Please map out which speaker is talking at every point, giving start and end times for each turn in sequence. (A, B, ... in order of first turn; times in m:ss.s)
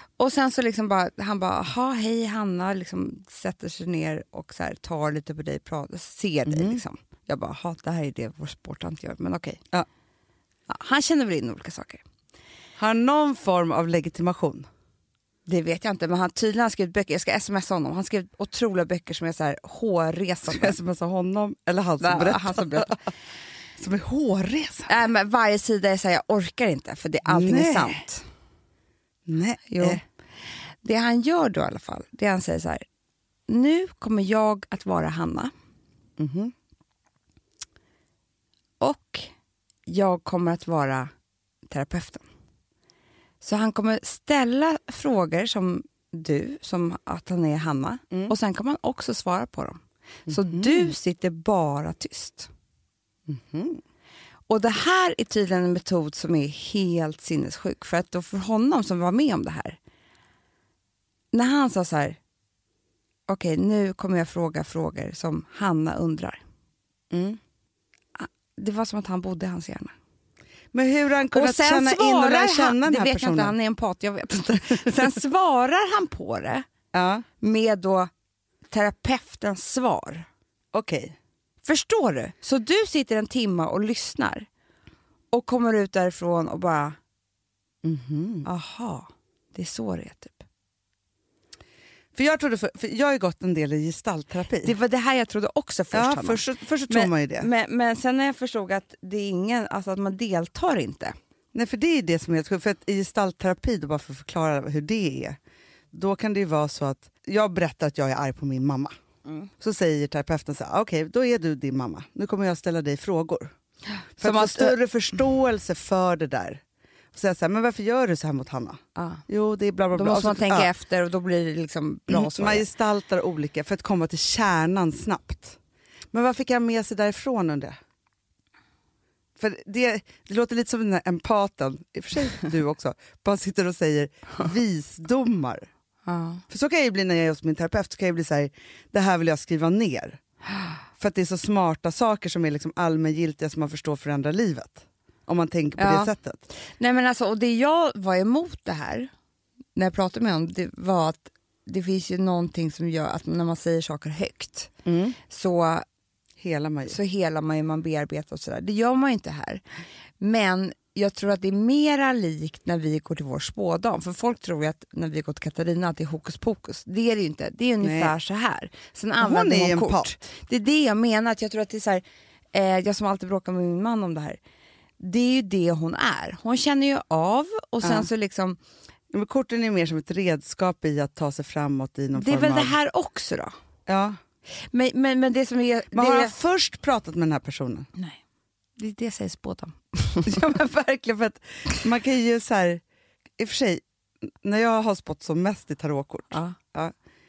0:00.2-0:09.6 A
0:06.5-0:06.8 B
0:10.7-0:12.0 A
0:12.8-0:14.7 B
0:15.5-0:20.8 A
0:20.5-0:23.0 B
0:22.0-0:23.0 A
0:23.8-0:25.0 B
0:24.9-0:28.2 A
0:27.3-0:28.0 B
0:29.2-0:30.0 B
0:29.7-0:30.0 A
0:30.8-0:32.8 A
0:33.5-0:35.5 A
0:36.2-0:36.5 B
0:38.8-0:39.3 A
0:39.8-0:41.1 A
0:41.7-0:42.2 A
0:43.4-0:52.5 A
0:50.3-0:50.9 B
0:53.3-0:53.8 B
0:54.5-0:59.8 A
1:01.3-1:02.2 A
1:03.3-1:06.4 A
1:07.1-1:07.4 B
1:08.2-1:09.9 A
1:10.7-1:13.5 B
1:11.3-1:16.7 A
1:16.9-1:17.2 B
1:17.4-1:18.1 A
1:18.7-1:20.3 A
1:20.7-1:21.2 B
1:21.6-1:24.5 A
1:25.3-1:27.0 A
1:27.8-1:28.5 B
1:28.4-1:30.4 A
1:32.2-1:34.7 B
1:34.6-1:41.2 A
1:35.9-1:37.5 B
1:41.5-1:45.4 B
1:45.9-1:48.9 B
1:49.6-1:53.5 B
1:54.2-1:54.8 A
1:54.2-1:56.6 B
1:57.1-2:00.7 B
1:58.9-1:59.2 A
1:59.9-2:02.7 A
2:02.1-2:05.6 B
2:06.1-2:07.8 B
2:09.4-2:15.7 B
2:16.0-2:16.4 A
2:16.5-2:20.2 B
2:21.0-2:26.5 B
2:25.8-2:26.1 A
2:26.8-2:29.1 A
2:29.8-2:35.9 A
2:34.8-2:35.2 B
2:36.4-2:37.0 B
2:36.9-2:39.6 A
2:40.2-2:54.4 A
2:47.8-2:48.1 B
2:49.2-2:50.1 B
2:55.0-2:58.6 A
2:59.1-3:02.8 B
3:02.1-3:03.6 A
3:03.9-3:04.2 B
3:04.7-3:06.3 A
3:05.9-3:07.9 B
3:08.8-3:10.4 A
3:10.2-3:12.8 B
3:13.4-3:13.8 B
3:14.4-3:16.9 B